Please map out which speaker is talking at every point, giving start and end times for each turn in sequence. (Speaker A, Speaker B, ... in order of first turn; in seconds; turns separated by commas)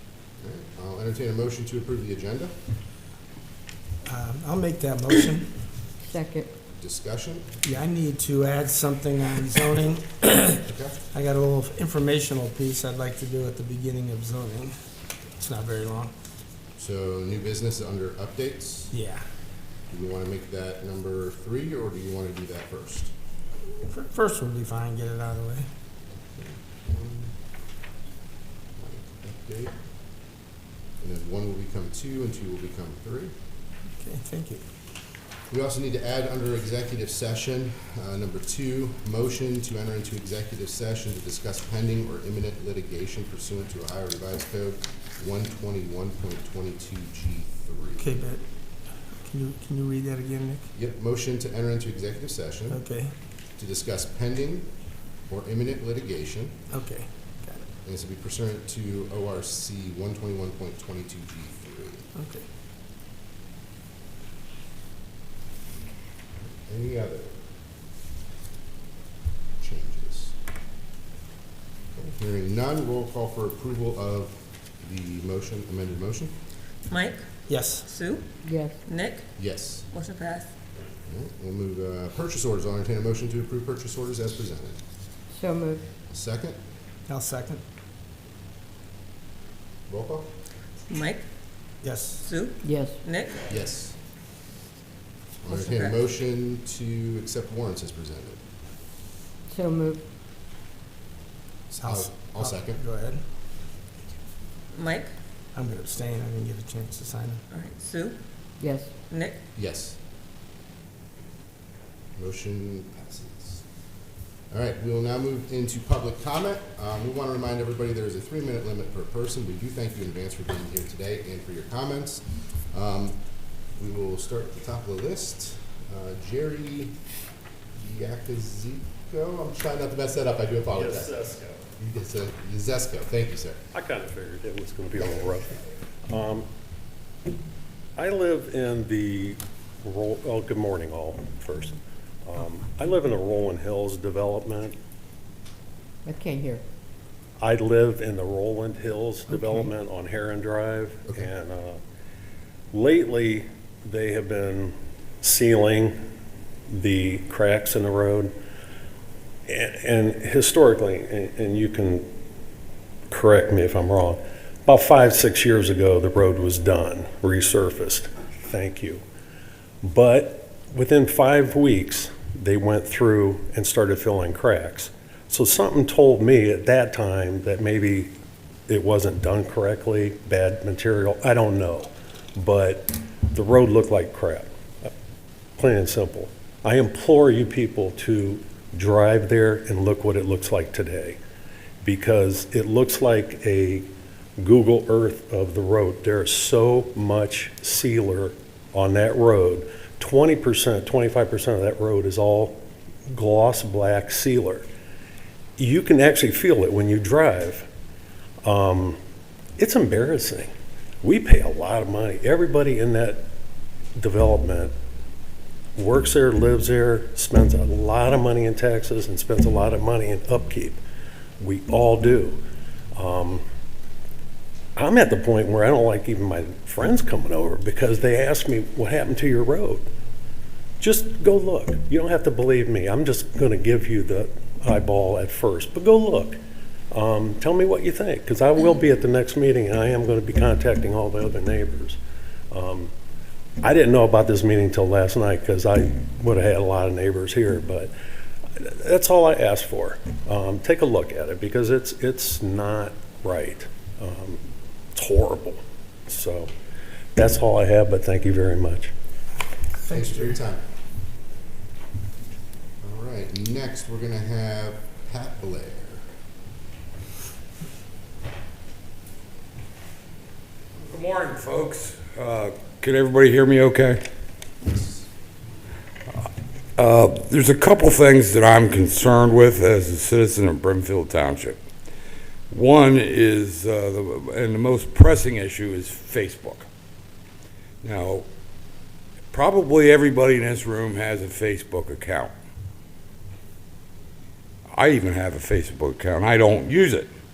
Speaker A: 0.4-2.5, Speaker B: 4.1-5.5, Speaker C: 6.1-6.5, Speaker A: 6.8-7.5, Speaker B: 7.6-14.7, Speaker A: 10.6-11.0, Speaker B: 15.4-16.1, Speaker A: 16.8-18.9, Speaker B: 18.9-19.2, Speaker A: 19.9-23.1, Speaker B: 23.8-25.7, Speaker A: 26.3-27.3, Speaker A: 28.8-29.7, Speaker A: 31.0-33.3, Speaker B: 34.0-34.6, Speaker A: 35.5-48.1, Speaker B: 48.0-48.4, Speaker B: 49.3-50.7, Speaker A: 50.7-52.8, Speaker B: 52.7-53.1, Speaker A: 53.6-54.7, Speaker A: 55.3-56.5, Speaker B: 56.7-57.6, Speaker A: 57.8-62.1, Speaker B: 62.2-62.5, Speaker A: 66.5-67.4, Speaker A: 69.6-70.3, Speaker A: 71.9-76.3, Speaker D: 76.9-77.2, Speaker B: 77.5-77.9, Speaker D: 77.8-78.2, Speaker C: 78.4-78.8, Speaker D: 78.8-79.2, Speaker A: 79.4-79.9, Speaker D: 79.9-80.5, Speaker A: 81.1-84.8, Speaker C: 85.3-85.8, Speaker A: 86.1-86.6, Speaker B: 87.1-87.6, Speaker A: 89.9-90.3, Speaker D: 90.9-91.2, Speaker B: 91.8-92.2, Speaker D: 92.2-93.4, Speaker C: 92.6-93.0, Speaker A: 93.5-94.0, Speaker A: 95.4-98.4, Speaker D: 95.5-96.0, Speaker C: 99.5-100.0, Speaker A: 101.7-102.8, Speaker B: 101.8-103.2, Speaker D: 104.7-105.1, Speaker B: 105.5-107.4, Speaker D: 107.5-108.2, Speaker C: 108.6-108.9, Speaker D: 109.1-109.4, Speaker A: 109.5-110.0, Speaker A: 112.2-113.6, Speaker A: 114.5-123.2, Speaker A: 123.8-127.0, Speaker A: 127.8-131.1, Speaker E: 130.7-131.7, Speaker A: 131.8-133.6, Speaker E: 133.7-135.5, Speaker A: 135.0-135.3, Speaker E: 136.1-136.5, Speaker E: 138.0-144.8, Speaker C: 146.1-146.6, Speaker E: 147.4-151.8, Speaker E: 152.7-155.9, Speaker E: 156.7-158.3, Speaker E: 159.5-162.1, Speaker E: 163.1-169.0, Speaker E: 169.8-178.1, Speaker E: 178.7-184.9, Speaker E: 185.6-191.2, Speaker E: 191.8-204.7, Speaker E: 205.6-207.7, Speaker E: 208.4-209.0, Speaker E: 209.6-210.5, Speaker E: 211.0-213.3, Speaker E: 214.0-214.7, Speaker E: 215.8-220.8, Speaker E: 221.4-222.4, Speaker E: 222.9-223.4, Speaker E: 224.8-229.9, Speaker E: 230.8-236.4, Speaker E: 236.9-242.0, Speaker E: 242.5-242.9, Speaker E: 243.6-247.9, Speaker E: 248.6-254.4, Speaker E: 254.9-256.5, Speaker E: 257.2-258.9, Speaker B: 259.8-260.4, Speaker A: 259.9-260.6, Speaker A: 262.8-266.0, Speaker F: 270.8-274.0, Speaker A: 274.6-275.1, Speaker F: 276.8-281.6, Speaker F: 282.5-286.7, Speaker F: 287.8-288.3, Speaker F: 289.3-292.3, Speaker F: 294.7-297.1